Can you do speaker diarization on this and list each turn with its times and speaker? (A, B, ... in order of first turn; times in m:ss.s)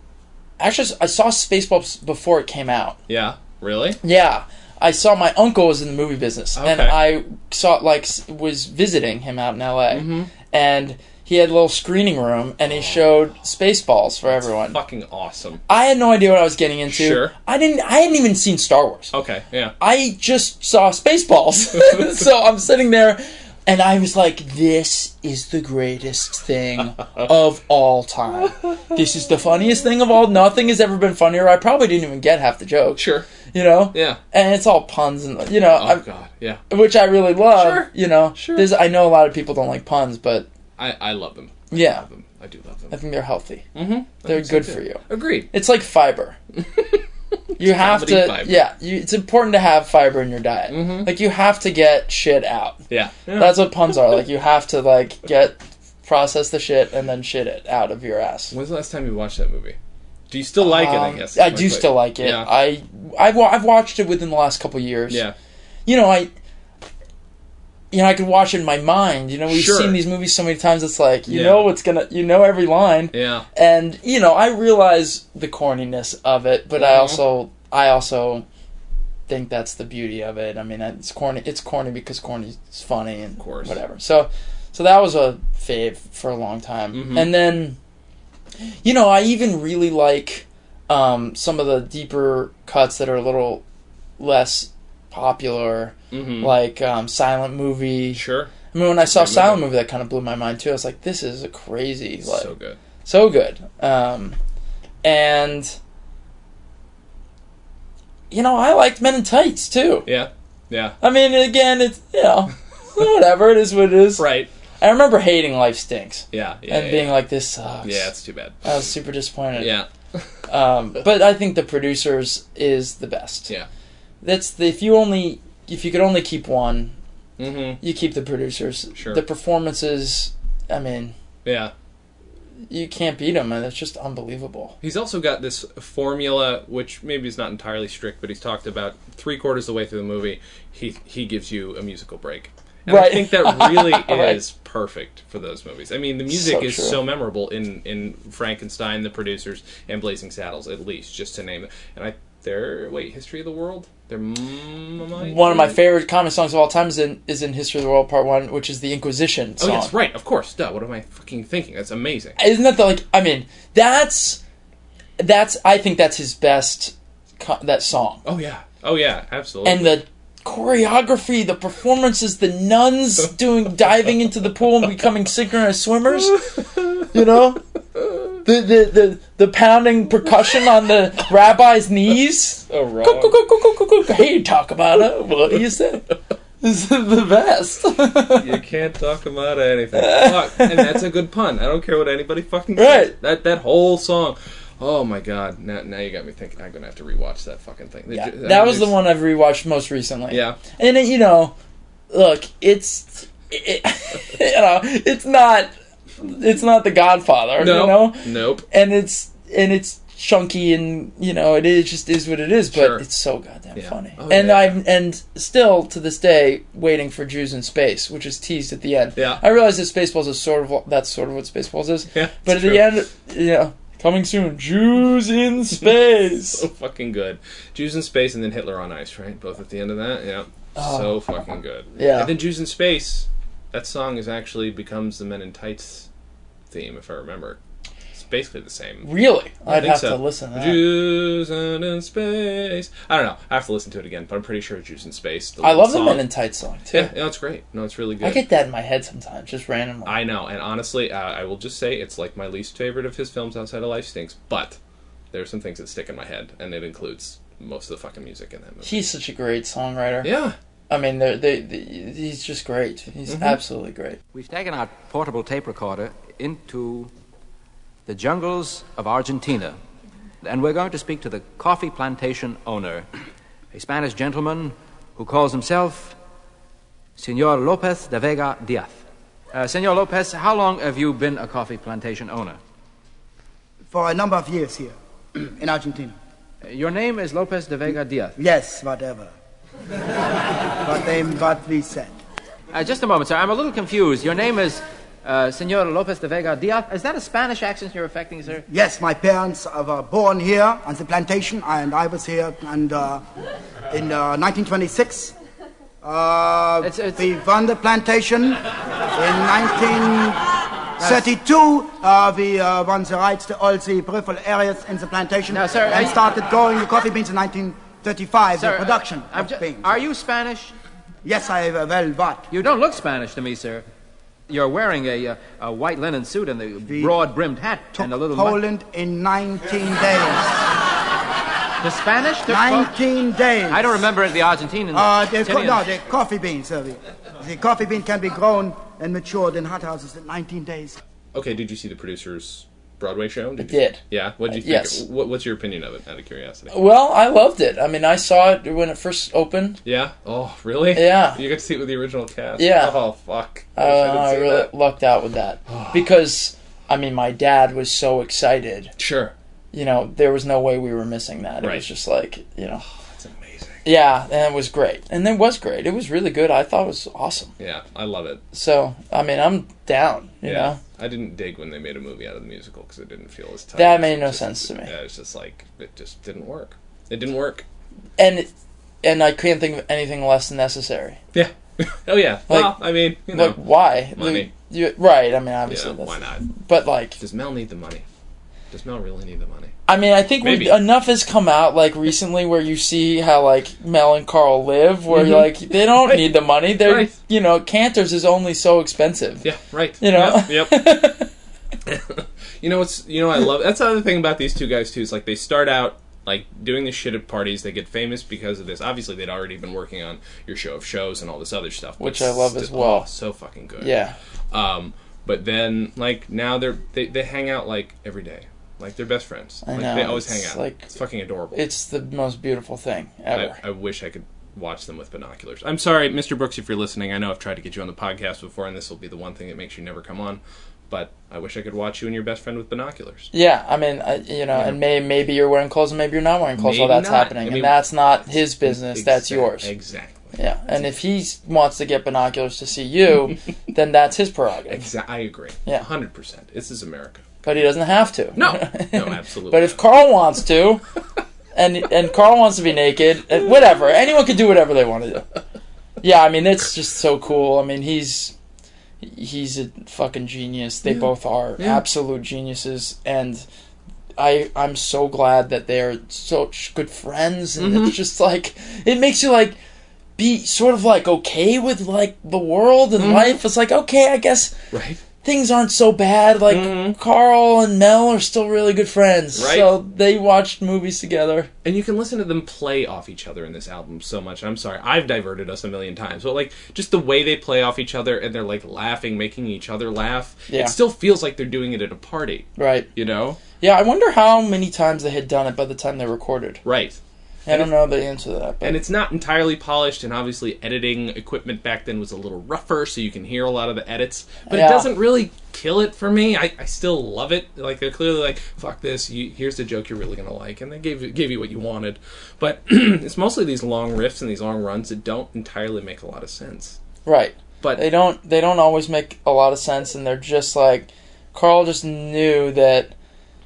0:00.6-0:03.0 A
0:03.1-0:04.0 B
0:04.0-0:14.8 A
0:06.6-0:07.0 B
0:09.9-0:10.3 B
0:12.7-0:13.0 B
0:14.6-0:15.6 B
0:15.7-0:19.1 A
0:16.9-0:17.3 B
0:19.1-0:19.7 B
0:19.8-0:36.0 A
0:32.9-0:33.3 B
0:33.9-0:34.2 B
0:35.7-0:36.6 B
0:36.7-0:40.5 A
0:37.5-0:38.7 B
0:40.8-0:43.0 B
0:41.7-0:42.0 A
0:42.9-0:43.7 A
0:43.7-0:45.5 B
0:44.2-0:46.4 A
0:46.6-0:48.6 B
0:47.6-0:52.8 A
0:50.7-0:51.1 B
0:52.9-0:53.6 B
0:53.3-0:58.5 A
0:58.5-0:59.8 B
1:00.3-1:02.5 B
1:00.6-1:05.2 A
1:05.1-1:05.3 B
1:05.8-1:06.3 A
1:07.9-1:18.4 A
1:09.5-1:10.0 B
1:11.3-1:11.6 B
1:13.1-1:13.4 B
1:16.8-1:17.2 B
1:19.3-1:27.8 A
1:23.4-1:23.8 B
1:26.9-1:27.3 B
1:28.6-1:33.6 A
1:34.2-1:42.5 A
1:36.1-1:36.5 B
1:38.1-1:39.6 B
1:42.2-1:42.8 B
1:43.0-1:44.4 A
1:45.0-1:45.8 A
1:48.3-1:50.1 A
1:50.0-1:51.0 B
1:51.0-1:54.2 A
1:54.2-1:54.5 B
1:54.8-1:58.1 A
1:56.3-1:57.2 B
1:57.8-1:58.6 B
1:58.6-1:59.7 A
1:59.6-2:00.3 B
2:00.5-2:03.5 A
2:04.2-2:07.0 A
2:07.4-2:07.8 B
2:07.8-2:11.1 A
2:09.0-2:09.2 B
2:11.4-2:11.7 B
2:12.7-2:14.8 A
2:14.8-2:35.8 B
2:22.9-2:24.4 A
2:26.3-2:27.0 A
2:35.2-2:39.9 A
2:39.6-2:42.4 B
2:42.4-2:44.4 A
2:45.2-2:48.2 A
2:48.2-2:50.0 B
2:49.6-2:57.6 A
2:58.0-2:58.3 B
2:58.4-3:06.1 A
3:02.7-3:03.4 B
3:06.6-3:08.6 A
3:08.3-3:19.0 B
3:09.9-3:11.0 A
3:12.8-3:13.1 A
3:18.1-3:21.6 A
3:20.3-3:20.6 B
3:22.1-3:46.6 A
3:27.6-3:28.6 B
3:32.7-3:33.0 B
3:33.7-3:34.8 B
3:39.2-3:39.4 B
3:42.1-3:42.9 B
3:46.5-3:56.1 B
3:50.8-3:51.1 A
3:52.0-3:52.3 A
3:56.7-3:57.6 B
3:58.1-3:59.1 B
3:59.0-4:00.8 A
3:59.6-4:06.2 B
4:05.6-4:07.1 A
4:06.9-4:08.4 B
4:08.2-4:10.1 A
4:10.0-4:14.8 B
4:15.3-4:19.0 B
4:18.8-4:20.3 A
4:20.2-4:20.5 B
4:20.9-4:24.2 A
4:23.3-4:23.6 B
4:24.3-4:27.1 C
4:28.0-4:29.8 C
4:30.4-4:33.1 C
4:33.7-4:36.2 C
4:37.2-4:39.0 C
4:39.5-4:42.6 C
4:43.9-4:46.2 D
4:46.6-4:48.3 C
4:48.4-4:49.3 D
4:50.8-4:52.1 D
4:52.7-4:58.6 C
4:58.7-5:03.2 D
5:03.9-5:05.3 D
5:06.0-5:08.6 D
5:06.8-5:07.2 C
5:09.2-5:10.4 D
5:11.0-5:11.3 C
5:11.0-5:20.0 D
5:15.5-5:16.2 C
5:18.6-5:20.7 C
5:21.2-5:22.5 D
5:22.5-5:23.8 C
5:24.5-5:28.6 C
5:26.9-5:27.1 D
5:28.0-5:30.6 D
5:31.8-5:32.9 C
5:32.5-5:34.0 D
5:33.7-5:35.8 C
5:34.9-5:41.0 D
5:41.3-5:46.8 B
5:43.6-5:45.0 A
5:46.7-5:49.8 A
5:49.8-5:54.7 B
5:50.9-5:51.4 A
5:52.6-5:53.0 A
5:53.8-5:58.9 A
5:55.7-5:56.1 B
5:59.0-5:59.3 B
5:59.7-6:02.8 A
6:03.0-6:03.8 B
6:03.8-6:07.5 A
6:07.6-6:08.4 B
6:08.5-6:10.8 A
6:10.4-6:17.6 B
6:13.8-6:14.9 A
6:18.2-6:18.5 A
6:19.0-6:21.2 A
6:21.3-6:24.5 B
6:22.5-6:27.2 A
6:25.7-6:26.5 B
6:27.2-6:28.0 B
6:28.7-6:29.8 B
6:29.9-6:39.4 A
6:30.4-6:30.8 B
6:35.1-6:37.1 B
6:39.4-6:41.0 B
6:40.0-6:41.3 A
6:41.8-6:53.9 B
6:52.0-6:53.1 A
6:53.8-6:54.2 A
6:54.5-7:01.6 B
6:59.6-7:00.9 A
7:01.5-7:03.6 A
7:03.3-7:13.3 B
7:13.3-7:19.7 A
7:14.5-7:14.8 B
7:16.6-7:20.4 B
7:20.3-7:24.9 A
7:24.7-7:27.4 B
7:27.4-7:30.8 A
7:28.4-7:29.8 B
7:31.5-7:35.2 A
7:36.0-7:38.4 A
7:39.0-7:43.4 A
7:41.6-7:41.8 B
7:44.2-7:49.6 A
7:47.6-7:47.9 B
7:50.2-7:54.6 A
7:53.0-7:53.4 B
7:54.7-7:55.0 B
7:55.2-8:01.5 A
7:56.5-7:57.0 B
7:59.3-7:59.7 B
8:01.6-8:13.4 B
8:10.5-8:10.7 A
8:12.6-8:12.9 A
8:13.5-8:16.6 A
8:16.6-8:17.7 B
8:17.4-8:18.8 A
8:18.6-8:36.8 B
8:24.5-8:24.9 A
8:37.0-8:42.9 A